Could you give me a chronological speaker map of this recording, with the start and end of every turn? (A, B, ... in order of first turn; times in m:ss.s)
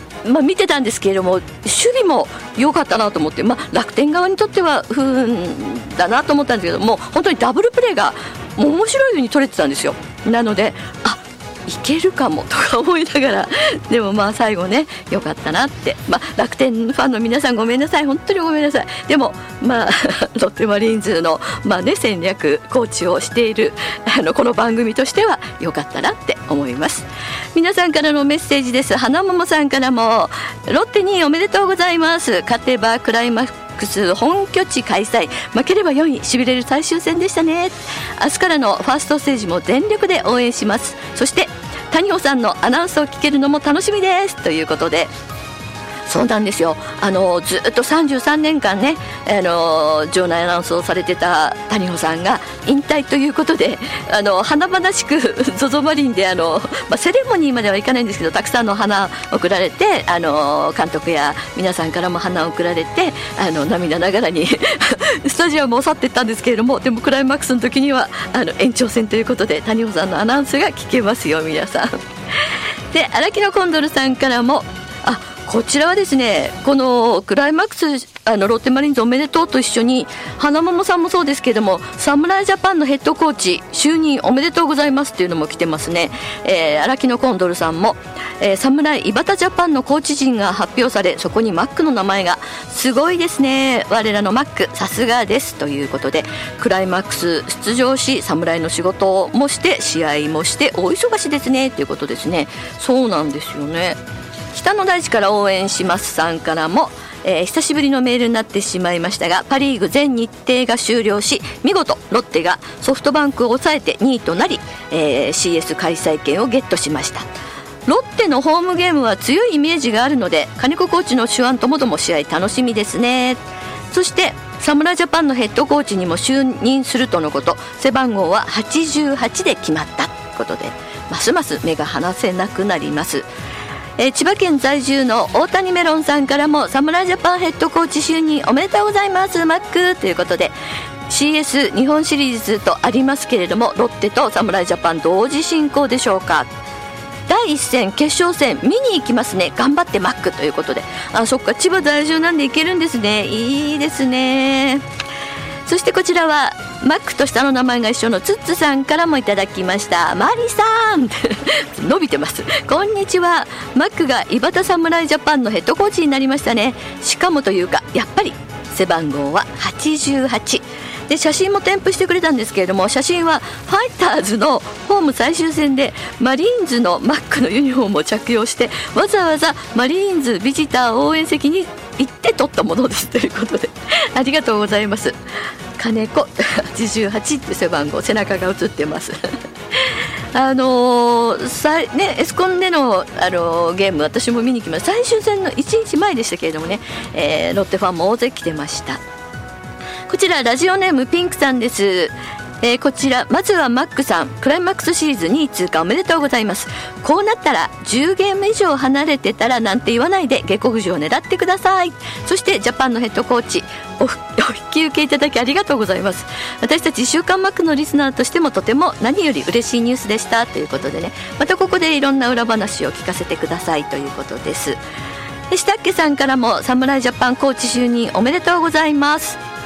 0:00.2-0:45.1 A
0:46.0-1:12.0 A
1:12.9-1:44.0 A
1:44.5-1:57.3 A
1:57.8-2:13.3 A
2:14.0-2:20.5 A
2:21.1-2:26.5 A
2:27.3-2:34.8 A
2:35.6-3:05.2 A
3:05.8-3:09.2 A
3:09.7-3:19.0 A
3:20.1-3:44.8 A
3:45.5-3:49.4 A